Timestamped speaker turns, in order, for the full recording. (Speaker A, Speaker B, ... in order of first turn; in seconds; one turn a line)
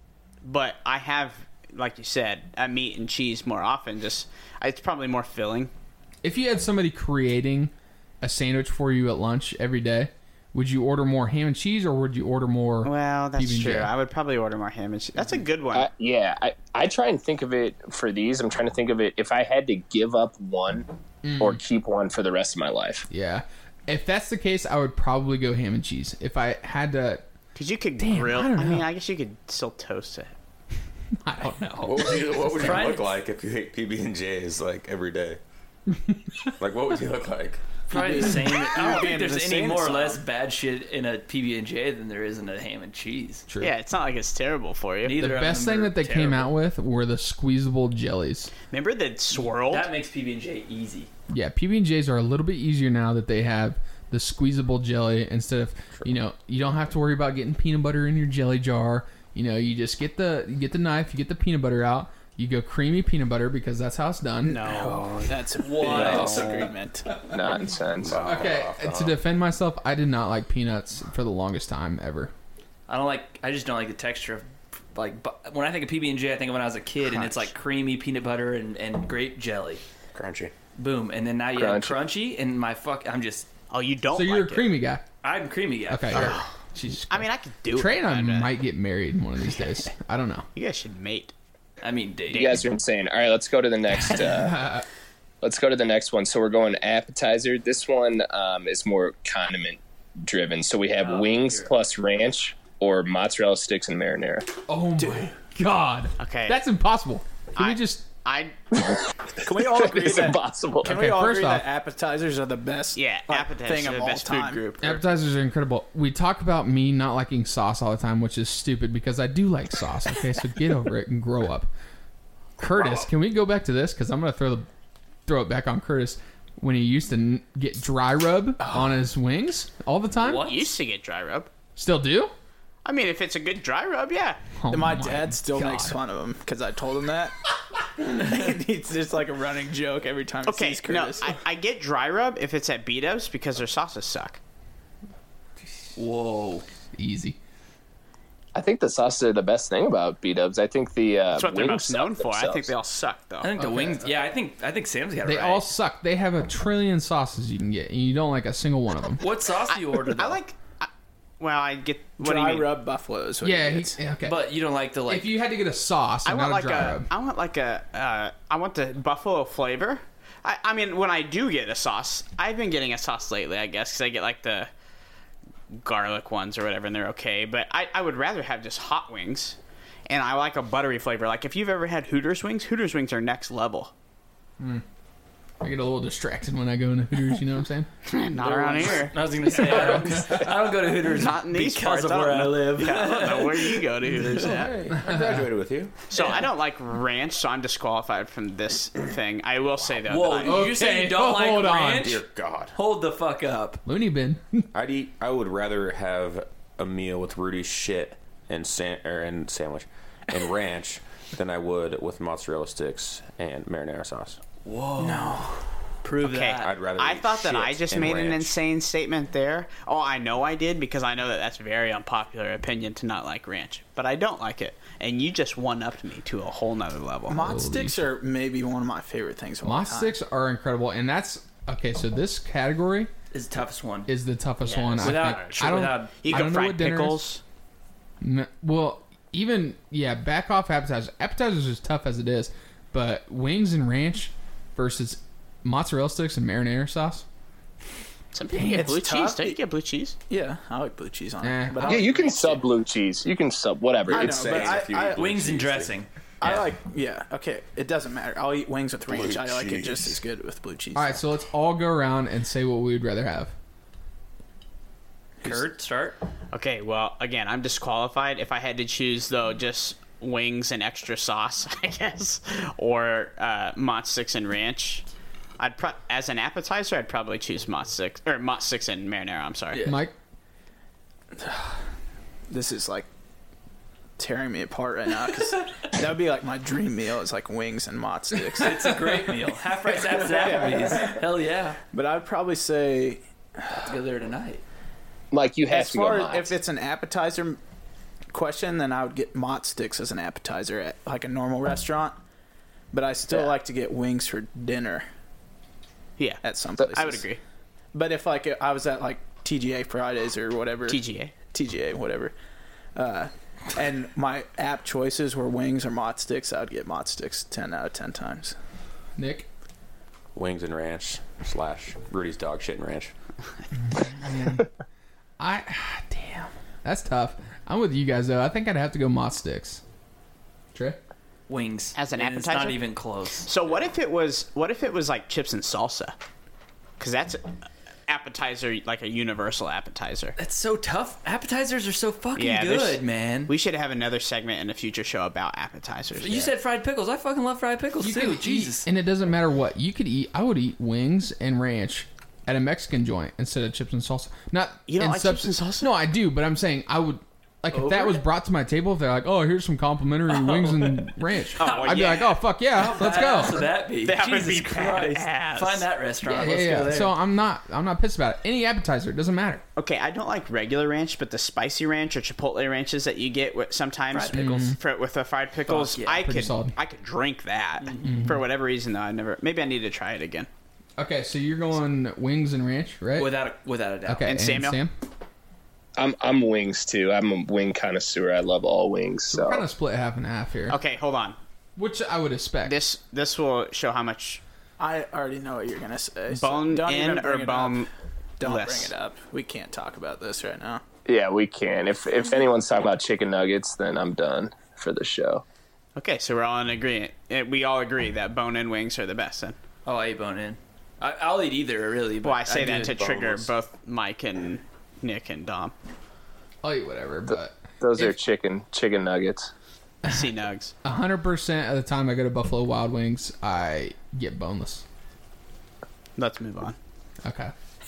Speaker A: 0.4-5.7
Speaker B: 6.2-13.9
Speaker A: 12.8-15.9
Speaker C: 15.7-23.1
Speaker B: 21.2-21.6
Speaker B: 23.1-27.2
Speaker A: 27.5-30.3
Speaker B: 28.0-28.9
Speaker B: 31.1-32.9
Speaker D: 31.8-35.4
Speaker E: 32.6-33.1
Speaker B: 36.0-36.3
Speaker D: 36.6-37.8
Speaker E: 37.9-43.5
Speaker F: 37.9-40.2
Speaker B: 43.5-43.7
Speaker A: 43.6-45.2
Speaker E: 45.0-46.5
Speaker B: 45.1-48.5
Speaker A: 48.7-49.9
Speaker E: 49.4-51.1
Speaker B: 51.3-64.7
Speaker F: 64.5-67.3
Speaker A: 64.5-65.3
Speaker E: 65.6-66.7
Speaker A: 65.9-66.6
Speaker C: 67.3-68.2
Speaker D: 68.0-69.2
Speaker B: 68.1-72.3
Speaker E: 72.9-79.8
Speaker D: 80.1-80.5
Speaker E: 80.8-83.5
Speaker C: 81.5-82.0
Speaker A: 83.7-84.7
Speaker B: 84.1-85.0
Speaker E: 85.2-86.4
Speaker B: 85.9-90.5
Speaker A: 86.1-86.5
Speaker A: 87.1-88.5
Speaker A: 90.5-91.3
Speaker E: 91.8-92.6
Speaker C: 92.3-94.7
Speaker B: 93.9-94.8
Speaker C: 95.4-104.5
Speaker E: 101.0-101.7
Speaker B: 104.7-108.1
Speaker F: 105.0-105.3
Speaker A: 106.2-106.6
Speaker A: 107.5-108.5
Speaker C: 108.7-111.0
Speaker F: 109.4-114.7
Speaker B: 110.8-111.6
Speaker A: 112.9-115.0
Speaker B: 114.8-121.7
Speaker B: 122.6-124.7
Speaker B: 125.2-130.4
Speaker F: 128.6-129.0
Speaker E: 130.2-130.7
Speaker A: 130.4-131.5
Speaker B: 131.8-132.3
Speaker A: 132.8-134.4
Speaker B: 134.6-135.9
Speaker F: 134.7-137.3
Speaker F: 138.0-141.3
Speaker A: 140.4-144.4
Speaker E: 145.9-146.6
Speaker B: 146.9-147.4
Speaker C: 148.5-152.7
Speaker A: 151.3-153.5
Speaker E: 153.4-155.7
Speaker B: 153.6-154.1
Speaker B: 155.2-159.2
Speaker E: 159.2-160.4
Speaker A: 159.7-162.7
Speaker F: 162.2-164.0
Speaker B: 163.4-164.4
Speaker E: 164.2-165.3
Speaker B: 165.1-167.1
Speaker A: 166.2-174.7
Speaker A: 175.7-179.6
Speaker A: 180.1-183.9
Speaker B: 184.6-184.8
Speaker B: 185.6-187.9
Speaker A: 188.1-190.1
Speaker E: 188.4-194.6
Speaker B: 189.6-190.5
Speaker A: 191.0-194.7
Speaker D: 194.3-195.9
Speaker B: 194.9-195.4
Speaker A: 196.1-200.6
Speaker E: 196.2-196.4
Speaker E: 200.0-202.2
Speaker B: 200.4-202.2
Speaker D: 202.0-202.8
Speaker E: 202.7-203.8
Speaker B: 203.8-204.7
Speaker D: 204.7-214.4
Speaker E: 214.6-215.4
Speaker F: 215.0-215.7
Speaker E: 216.0-216.7
Speaker A: 216.2-227.4
Speaker D: 216.6-218.6
Speaker F: 227.3-230.1
Speaker B: 227.3-228.0
Speaker B: 229.6-233.1
Speaker E: 233.3-234.1
Speaker B: 234.1-237.2
Speaker A: 234.6-237.4
Speaker E: 235.0-236.6
Speaker B: 238.2-247.2
Speaker A: 248.3-250.2
Speaker B: 248.5-249.0
Speaker F: 248.7-249.6
Speaker F: 250.3-252.7
Speaker B: 251.4-252.1
Speaker C: 251.8-254.8
Speaker D: 254.1-256.6
Speaker F: 254.1-255.3
Speaker E: 255.1-256.6
Speaker F: 256.4-261.3
Speaker D: 259.1-260.2
Speaker B: 260.9-263.5
Speaker F: 265.4-265.7
Speaker E: 265.4-266.2
Speaker A: 266.5-275.0
Speaker A: 275.6-279.8
Speaker E: 279.7-280.0
Speaker B: 279.8-280.1
Speaker F: 281.4-281.8
Speaker F: 282.5-283.1
Speaker F: 284.2-289.3
Speaker E: 288.6-291.8
Speaker F: 289.9-291.2
Speaker F: 291.9-293.9
Speaker E: 293.7-294.6
Speaker C: 295.3-296.6
Speaker F: 295.7-297.6
Speaker F: 298.3-302.2
Speaker F: 302.9-305.1
Speaker A: 306.2-307.4
Speaker F: 306.4-307.2
Speaker F: 307.9-312.3
Speaker A: 310.9-311.3
Speaker F: 312.9-318.6
Speaker B: 319.2-319.5
Speaker D: 320.3-323.1
Speaker B: 323.9-324.7
Speaker B: 325.4-329.8
Speaker B: 330.7-331.0
Speaker E: 331.5-333.5
Speaker A: 331.9-332.8
Speaker A: 333.4-336.1
Speaker A: 337.0-337.4
Speaker A: 338.1-340.3
Speaker E: 340.4-343.5
Speaker A: 342.4-346.5
Speaker E: 346.2-348.8
Speaker B: 348.0-363.6
Speaker A: 354.9-355.9
Speaker E: 357.7-358.1
Speaker E: 360.3-367.1
Speaker A: 361.6-362.4
Speaker A: 364.0-365.9
Speaker B: 366.3-369.6
Speaker F: 366.4-367.1
Speaker A: 369.8-380.5
Speaker F: 374.1-374.7
Speaker B: 374.3-374.8
Speaker E: 375.7-376.3
Speaker B: 376.1-376.8
Speaker E: 377.8-378.3
Speaker B: 378.0-378.4
Speaker B: 381.0-383.3
Speaker E: 383.2-384.3
Speaker B: 384.1-384.9
Speaker A: 384.3-384.8
Speaker C: 386.0-389.6
Speaker B: 389.3-390.8
Speaker A: 390.7-391.4
Speaker B: 391.8-392.8
Speaker A: 392.6-394.4
Speaker F: 394.8-397.9
Speaker A: 396.3-397.9
Speaker F: 398.4-400.8
Speaker A: 398.4-398.9
Speaker C: 401.1-405.4
Speaker A: 405.9-409.6
Speaker E: 409.9-412.9
Speaker A: 412.2-415.7
Speaker D: 412.6-413.5
Speaker B: 416.6-417.6
Speaker C: 417.3-419.5
Speaker B: 420.1-420.3
Speaker A: 420.1-420.7
Speaker B: 420.8-424.8
Speaker A: 426.2-426.8
Speaker B: 427.2-427.5